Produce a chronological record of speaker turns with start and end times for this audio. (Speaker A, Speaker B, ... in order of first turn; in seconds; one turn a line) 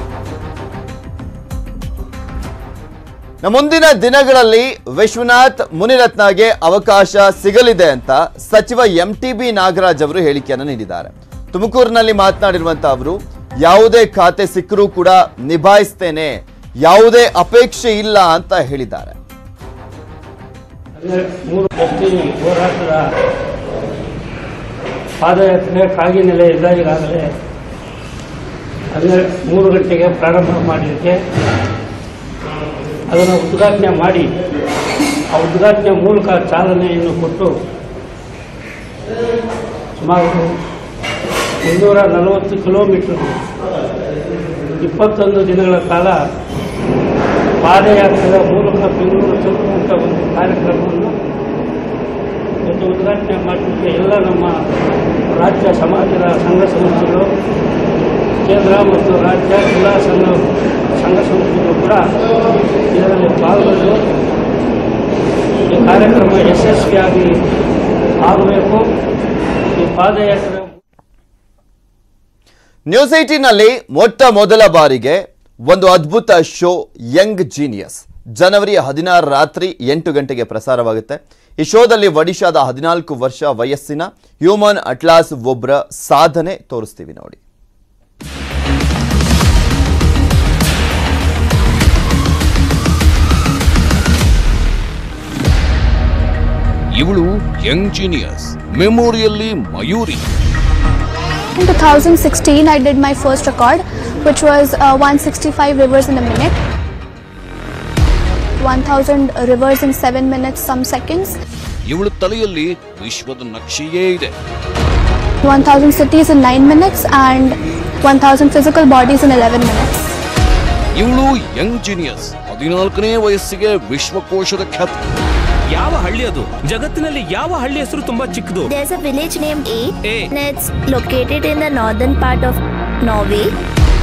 Speaker A: 3.4-19.2
Speaker B: 21.0-23.1
Speaker B: 25.2-27.3
Speaker B: 28.9-31.2
Speaker B: 33.1-34.3
Speaker B: 35.3-37.5
Speaker B: 40.0-40.5
Speaker B: 41.6-43.4
Speaker B: 44.8-46.2
Speaker B: 47.6-51.1
Speaker B: 52.6-54.6
Speaker B: 55.4-57.3
Speaker B: 58.4-60.4
Speaker B: 61.0-62.0
Speaker B: 62.9-64.0
Speaker B: 65.7-67.3
Speaker B: 68.2-68.8
Speaker B: 69.8-70.8
Speaker A: 72.9-87.4
Speaker C: 97.0-100.3
Speaker D: 101.6-106.5
Speaker D: 108.6-111.4
Speaker C: 111.9-114.3
Speaker D: 115.4-120.2
Speaker C: 120.9-125.0
Speaker E: 125.7-128.7
Speaker F: 128.7-133.5